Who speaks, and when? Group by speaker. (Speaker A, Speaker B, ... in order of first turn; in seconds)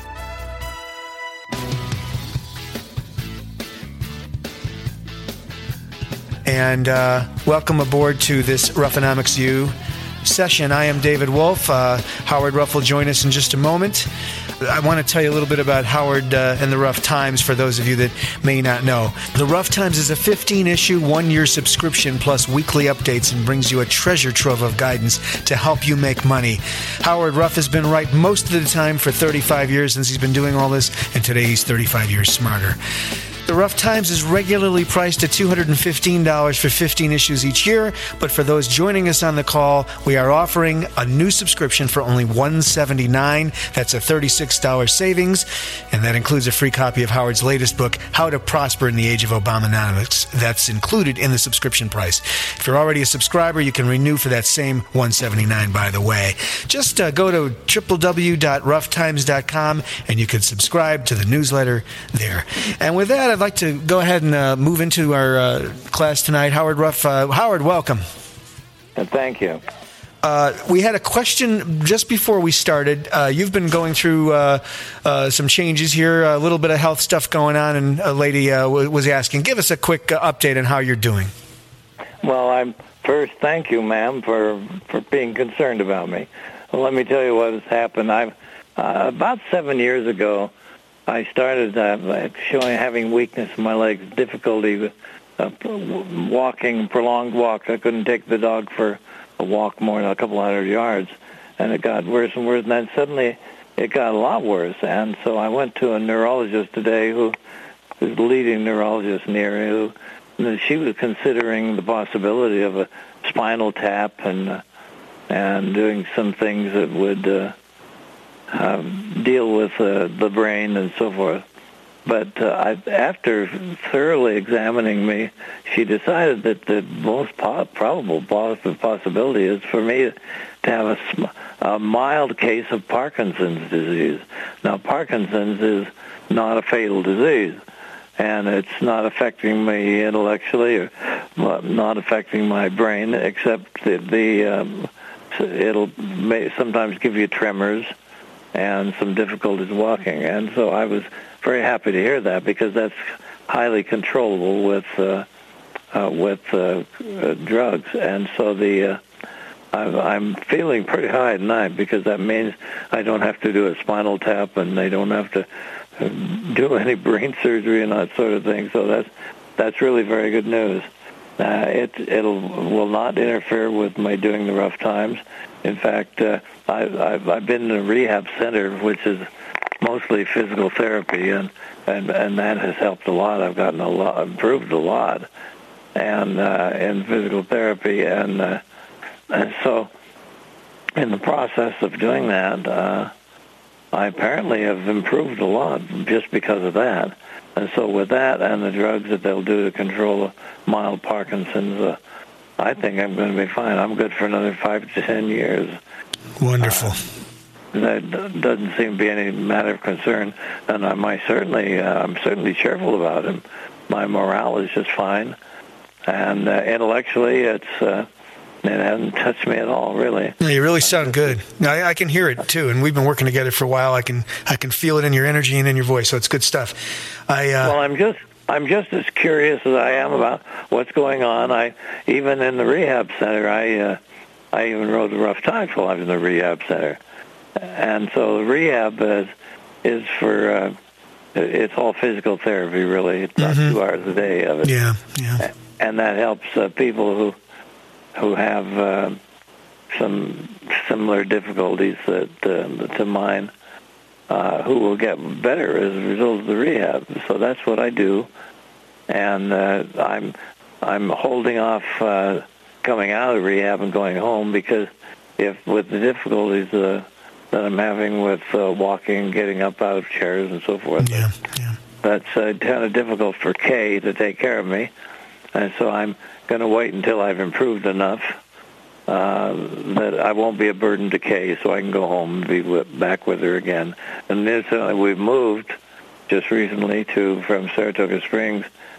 Speaker A: 6.4-14.1, 14.6-32.8, 33.5-68.0, 70.2-81.3, 206.4-207.0, 220.4-227.8, 243.4-243.8, 244.6-245.4, 271.0-271.8
Speaker B: 69.0-69.6, 82.2-90.5, 91.1-107.4, 108.0-114.6, 115.3-117.6, 118.5-121.4, 122.1-137.6, 138.2-147.9, 148.5-155.3, 155.9-159.0, 159.7-179.3, 179.8-185.3, 185.9-188.6, 189.3-189.9, 191.0-193.1, 193.9-202.0, 202.6-205.8, 206.6-206.9, 207.7-215.4, 216.1-218.1, 218.6-221.2, 227.6-234.0, 234.5-237.0, 237.6-239.3, 239.8-240.8, 241.3-244.7, 245.4-247.4, 248.2-249.2, 249.9-253.5, 254.3-258.3, 259.1-271.3, 272.0-274.9, 275.5-278.4, 279.1-285.8, 286.3-288.7